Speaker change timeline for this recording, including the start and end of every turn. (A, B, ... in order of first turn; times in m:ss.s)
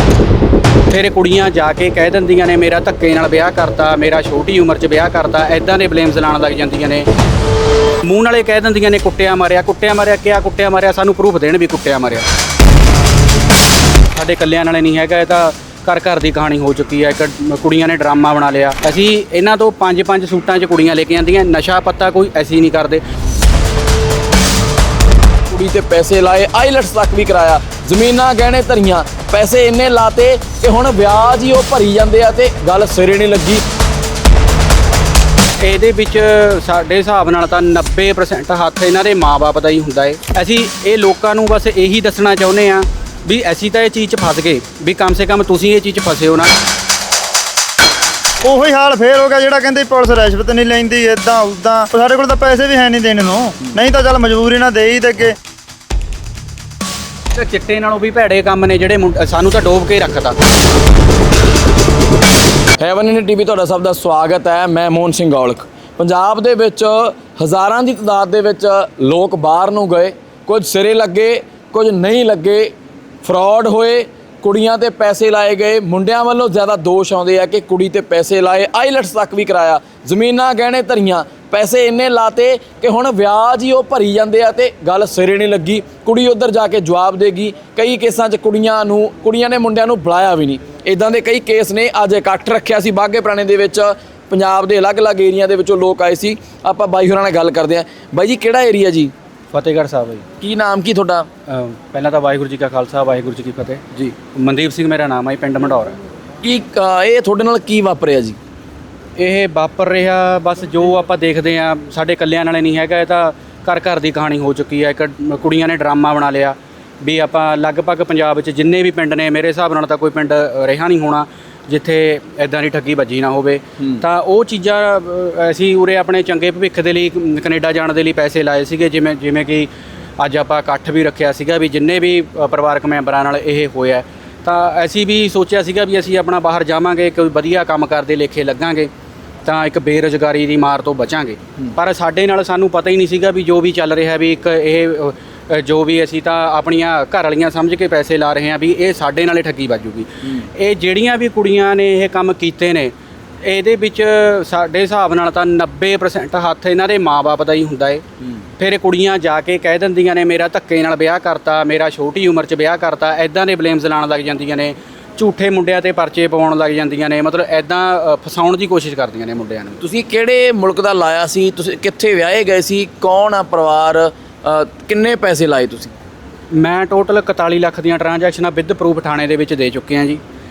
0:00.9-0:07.1 A
0:08.0-0:12.2 A
0:14.1-0:23.0 A
0:25.5-0:33.6 B
0:35.6-0:46.5 A
0:48.4-0:55.3 C
0:57.3-1:00.4 A
1:02.8-1:12.7 B
1:13.2-1:39.1 B
1:39.5-1:40.2 A
1:40.4-1:41.3 B
1:41.5-1:45.9 A
1:46.4-1:48.4 B
1:49.2-2:18.9 A
2:19.4-2:38.0 A
2:38.6-2:49.8 A
2:49.8-2:55.9 B
2:56.5-3:00.2 A